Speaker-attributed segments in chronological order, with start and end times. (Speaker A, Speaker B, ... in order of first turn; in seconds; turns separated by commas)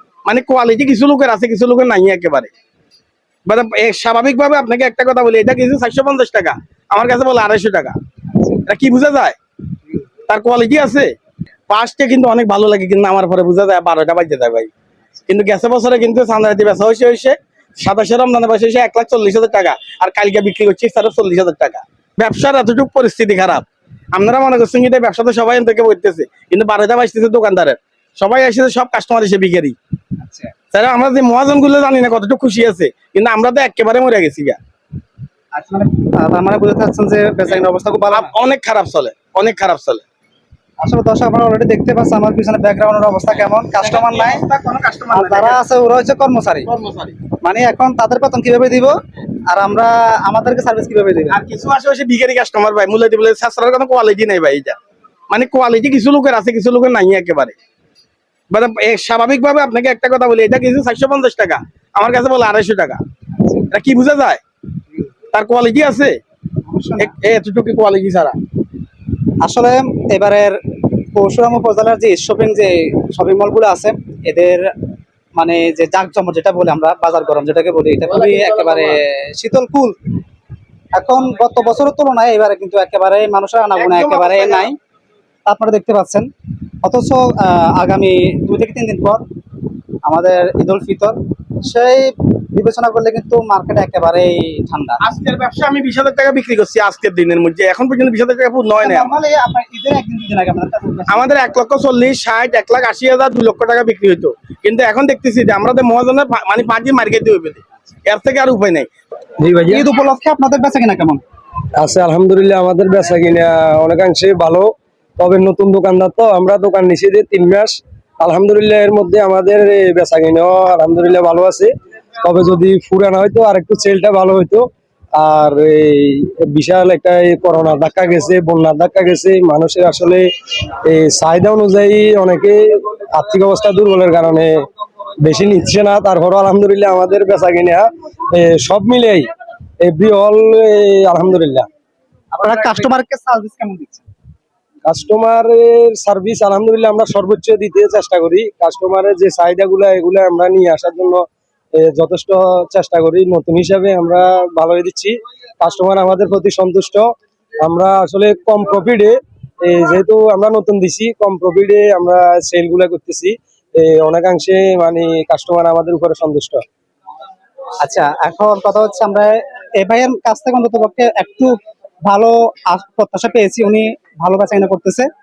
Speaker A: 0.2-2.5, Speaker A: 3.5-7.9, Speaker A: 8.7-9.4, Speaker A: 10.3-11.1, Speaker A: 11.7-14.7, Speaker A: 15.3-29.8, Speaker B: 30.2-30.5, Speaker A: 30.7-34.6, Speaker B: 35.5-38.3, Speaker A: 38.1-40.0, Speaker B: 40.8-44.4, Speaker A: 43.8-45.6, Speaker B: 45.1-46.7, Speaker A: 46.6-47.1, Speaker B: 47.4-48.9, Speaker B: 49.5-51.4, Speaker A: 51.3-54.8, Speaker A: 55.3-57.5, Speaker A: 58.5-63.0, Speaker A: 63.7-64.4, Speaker A: 65.3-66.1, Speaker B: 66.7-67.1, Speaker A: 67.0-68.3, Speaker B: 69.4-70.6, Speaker B: 71.1-74.7, Speaker B: 75.4-80.0, Speaker B: 80.9-84.8, Speaker A: 83.8-84.7, Speaker B: 85.5-86.3, Speaker B: 86.8-89.2, Speaker B: 90.0-95.0, Speaker A: 95.0-99.1, Speaker B: 98.8-101.2, Speaker A: 101.1-108.9, Speaker C: 109.4-109.8, Speaker B: 109.7-111.2, Speaker C: 111.8-124.7, Speaker C: 125.2-130.2, Speaker C: 130.8-134.5, Speaker C: 135.2-139.2, Speaker C: 139.8-141.7, Speaker B: 142.3-144.0, Speaker C: 144.8-151.2, Speaker C: 151.8-157.1, Speaker C: 157.6-166.6, Speaker B: 167.8-171.5, Speaker B: 172.0-175.1